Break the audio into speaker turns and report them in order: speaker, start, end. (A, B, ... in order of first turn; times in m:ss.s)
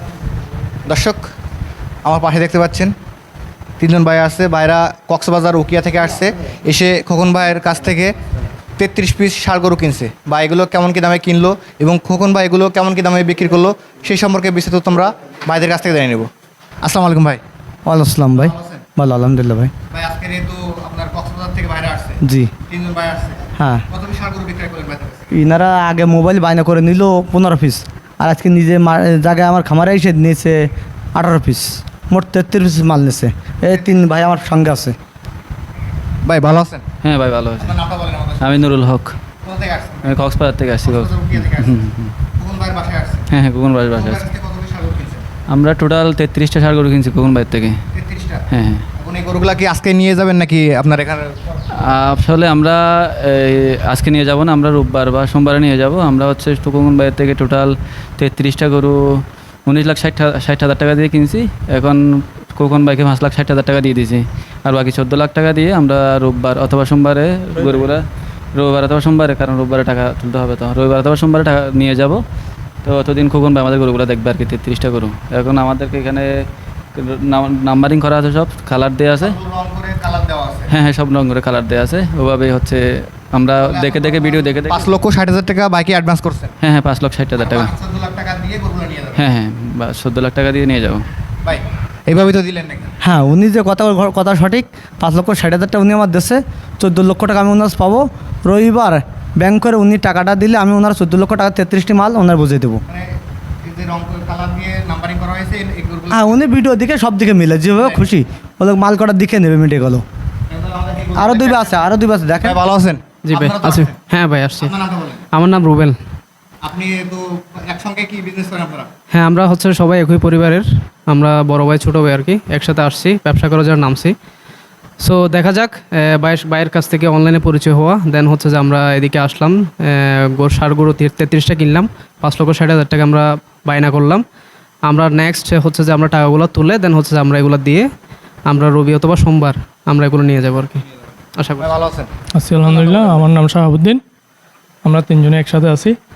0:00.9-0:01.2 A
0:02.0-0:02.9 A
0:03.8-0:08.2 A
0:08.8-0:16.3 A
0:16.8-0:17.4 A
0:17.9-0:19.7 B
0:18.4-0:18.8 A
0:19.9-0:25.3 A
0:22.2-0:22.5 B
0:23.6-0:23.8 B
0:25.3-0:35.0 B
0:36.2-0:36.8 A
0:37.0-0:37.8 C
0:37.6-0:38.7 A
0:38.4-0:39.2 C
0:39.4-0:43.3 A
0:40.0-0:42.2 C
0:43.3-0:44.2 C
0:43.9-0:45.3 A
0:45.5-0:47.8 C
0:47.9-0:51.4 A
0:48.5-0:48.8 C
0:51.8-0:59.0 C
0:59.7-1:12.2 C
1:12.8-1:16.3 C
1:17.0-1:19.4 C
1:19.2-1:20.7 A
1:20.7-1:24.9 C
1:23.6-1:26.6 A
1:26.6-1:27.7 C
1:27.4-1:29.2 A
1:29.2-1:31.1 C
1:31.4-1:32.9 A
1:33.0-1:42.8 B
1:43.7-1:46.4 A
1:46.1-1:50.0 B
1:47.8-1:48.2 A
1:50.5-1:51.8 A
1:51.2-1:52.6 B
1:52.4-1:54.0 A
1:53.2-1:54.7 D
1:54.6-1:55.2 A
1:55.3-1:56.0 D
1:56.6-1:58.9 A
1:59.1-2:04.2 D
2:05.0-2:14.2 D
2:14.8-2:17.9 D
2:18.5-2:20.8 D
2:21.4-2:21.7 D
2:21.6-2:22.1 A
2:22.4-2:24.0 E
2:22.6-2:23.3 A
2:24.8-2:26.0 E